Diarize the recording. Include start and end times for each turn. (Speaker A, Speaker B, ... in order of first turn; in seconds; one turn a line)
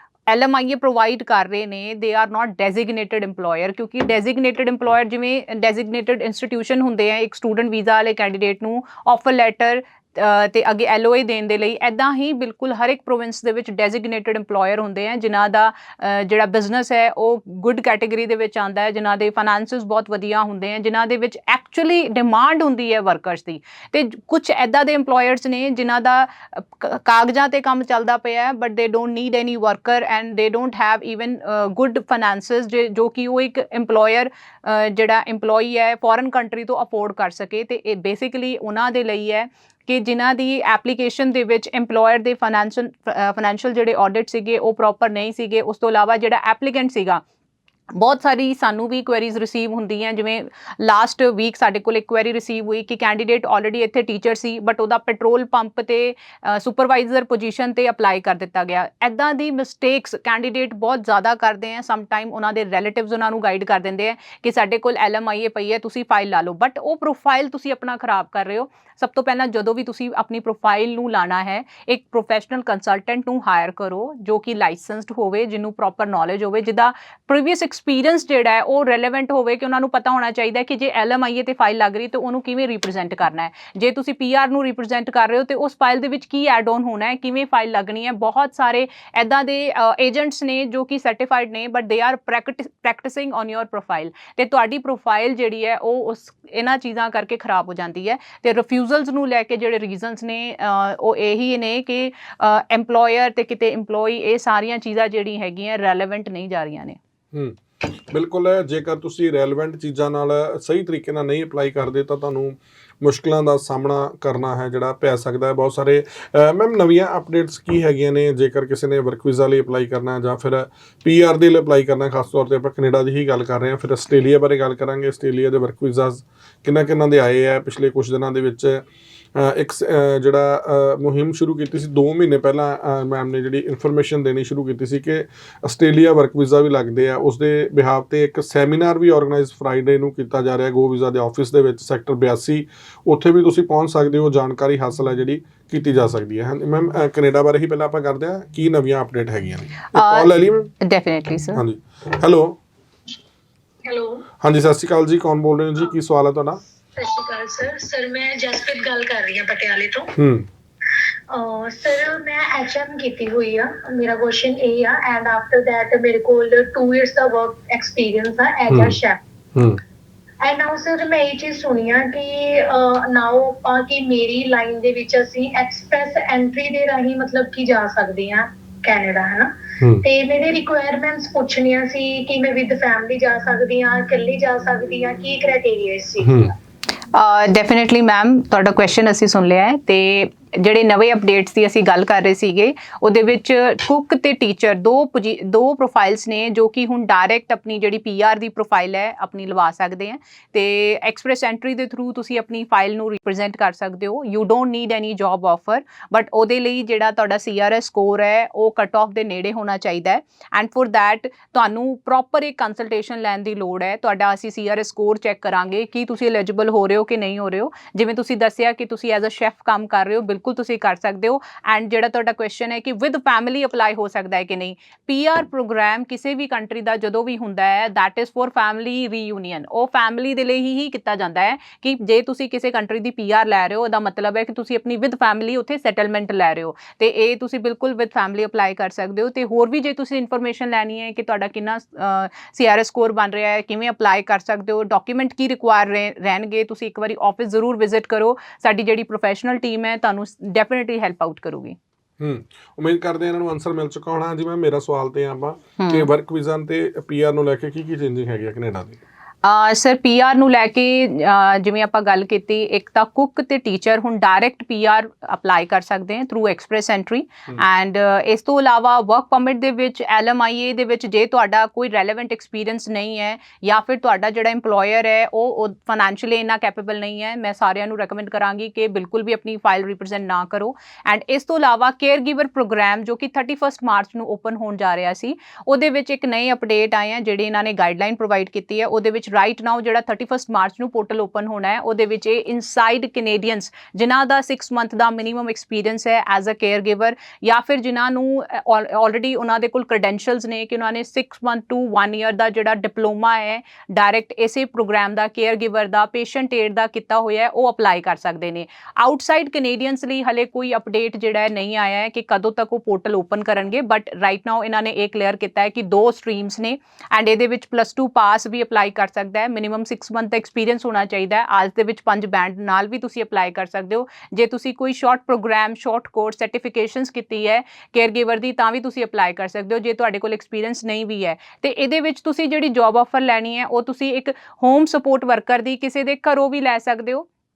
Speaker A: 0.3-47.2
Speaker A: 48.0-107.0
Speaker B: 107.3-128.8
Speaker B: 129.4-150.7
Speaker A: 149.9-150.3
Speaker A: 150.8-151.6
Speaker B: 151.5-152.6
Speaker C: 153.9-154.2
Speaker B: 154.4-156.6
Speaker C: 157.0-160.1
Speaker B: 160.2-160.5
Speaker C: 161.3-169.2
Speaker B: 168.7-169.0
Speaker B: 169.6-169.8
Speaker C: 170.4-186.6
Speaker B: 186.2-186.5
Speaker A: 187.1-251.8
Speaker B: 252.2-259.0
Speaker A: 255.8-256.1
Speaker A: 259.4-337.3